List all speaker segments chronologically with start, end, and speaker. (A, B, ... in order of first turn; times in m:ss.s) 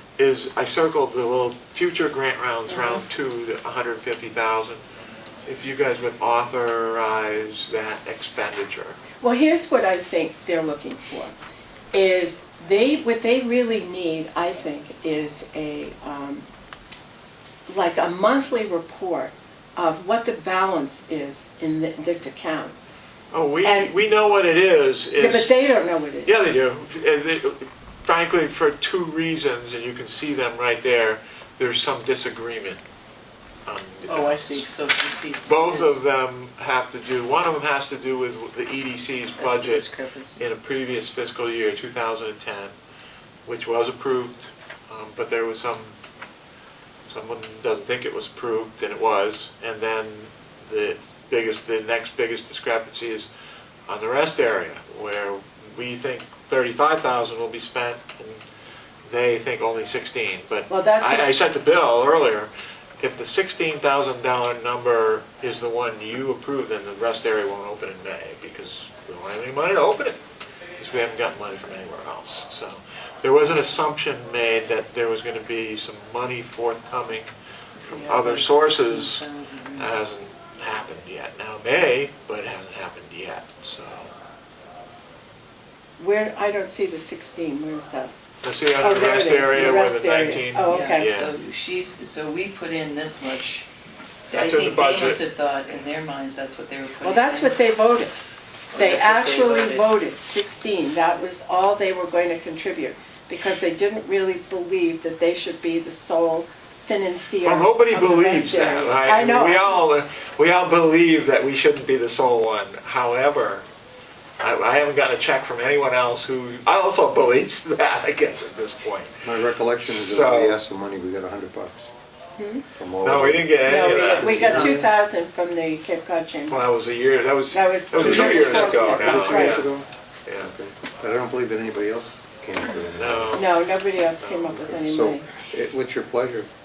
0:00.2-0:04.8 A
0:02.7-0:03.0 B
0:05.5-0:09.0 A
0:09.2-0:11.3 B
0:11.9-0:16.5 B
0:17.7-0:22.8 B
0:23.3-0:25.7 A
0:23.6-0:24.0 B
0:25.2-0:26.3 B
0:26.3-0:32.8 A
0:33.7-0:34.7 A
0:34.1-0:36.0 C
0:35.5-0:39.9 A
0:39.4-0:40.4 C
0:40.4-0:42.7 A
0:43.5-0:46.0 A
0:47.1-0:53.3 A
0:53.9-0:58.4 A
0:59.0-1:10.2 A
1:00.7-1:01.3 B
1:10.8-1:17.3 A
1:17.8-1:19.9 C
1:17.9-1:19.2 A
1:19.8-1:24.1 A
1:26.0-1:28.2 B
1:28.4-1:31.3 A
1:28.8-1:31.2 B
1:29.5-1:29.8 C
1:30.7-1:33.7 C
1:34.3-1:37.6 C
1:34.3-1:35.2 A
1:37.0-1:38.1 B
1:38.7-1:40.0 C
1:38.8-1:50.0 B
1:47.4-1:53.7 A
1:54.4-1:59.2 A
1:59.2-2:01.9 D
1:59.8-2:00.6 A
2:02.4-2:02.7 B
2:02.8-2:04.9 D
2:03.0-2:04.7 A
2:03.6-2:06.7 B
2:04.5-2:04.8 C
2:06.5-2:09.7 A
2:07.5-2:09.7 B
2:08.0-2:09.9 D
2:10.3-2:10.5 A
2:10.4-2:13.4 D
2:13.0-2:14.6 A
2:13.3-2:15.3 B
2:14.6-2:16.5 D